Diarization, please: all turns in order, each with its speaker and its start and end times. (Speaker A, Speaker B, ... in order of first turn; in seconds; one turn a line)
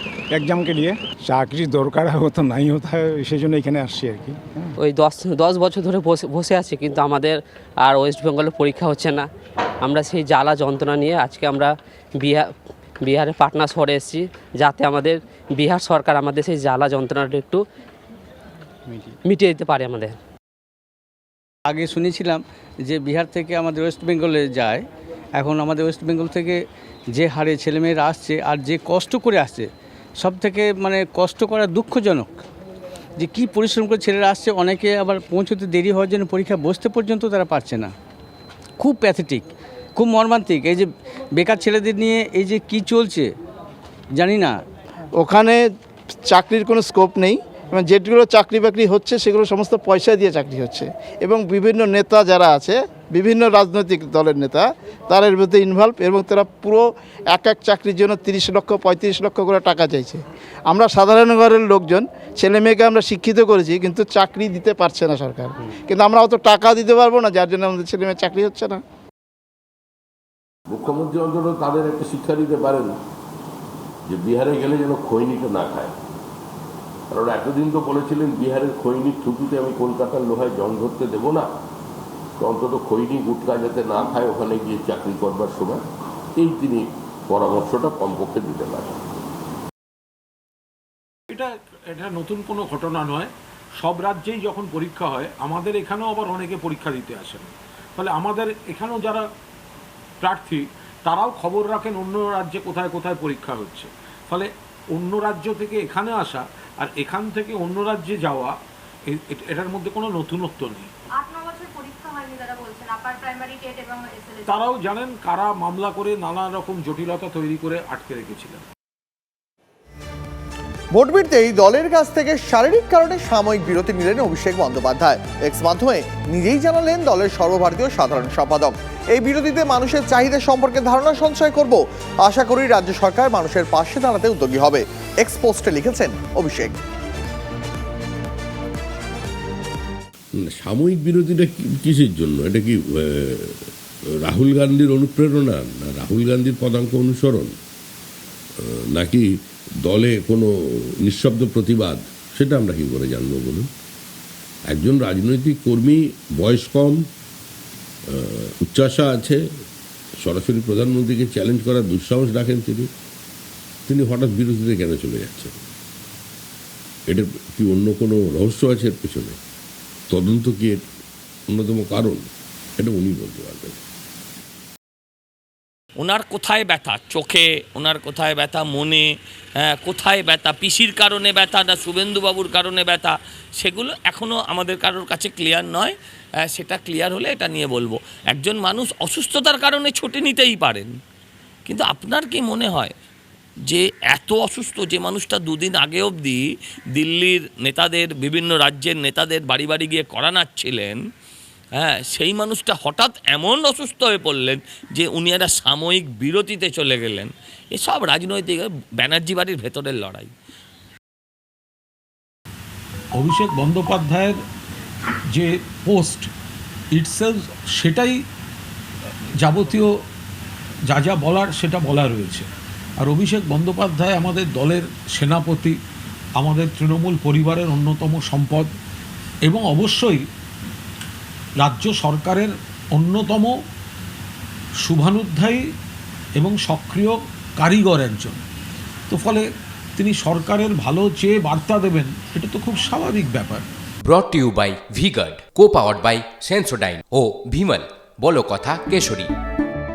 Speaker A: 0.3-4.7
Speaker B: 4.9-9.3
Speaker B: 9.8-12.5
Speaker B: 13.0-17.6
Speaker B: 19.3-20.2
Speaker C: 21.7-24.8
Speaker C: 25.4-29.7
Speaker C: 30.2-32.4
Speaker C: 33.2-37.9
Speaker C: 38.8-43.3
Speaker C: 44.1-44.6
Speaker D: 45.2-45.6
Speaker D: 46.3-68.8
Speaker E: 70.7-72.9
Speaker E: 74.1-75.9
Speaker E: 77.1-81.5
Speaker E: 82.4-85.8
Speaker E: 86.4-89.0
Speaker F: 91.3-99.3
Speaker F: 100.2-108.6
Speaker F: 109.1-110.9
Speaker G: 111.1-114.7
Speaker F: 114.5-118.6
Speaker H: 120.9-136.8
Speaker E: 140.4-143.4
Speaker E: 144.2-147.5
Speaker E: 148.9-149.3
Speaker E: 149.8-150.5
Speaker E: 151.0-153.7
Speaker E: 154.7-157.0
Speaker E: 158.1-159.4
Speaker E: 160.2-162.9
Speaker E: 163.9-165.5
Speaker E: 167.1-169.4
Speaker E: 170.1-170.8
Speaker E: 171.5-172.2
Speaker E: 172.8-173.8
Speaker I: 176.0-190.9
Speaker I: 191.7-192.9
Speaker I: 193.7-196.4
Speaker I: 196.9-201.0
Speaker I: 201.8-210.3
Speaker F: 213.2-214.4
Speaker F: 215.3-216.3
Speaker F: 216.9-218.2
Speaker F: 219.4-219.9
Speaker F: 220.9-222.5
Speaker F: 223.0-225.8
Speaker F: 226.4-228.8
Speaker F: 229.4-230.2
Speaker F: 231.6-233.6
Speaker F: 234.8-235.6
Speaker F: 236.4-238.4
Speaker F: 239.1-243.7
Speaker J: 244.0-249.3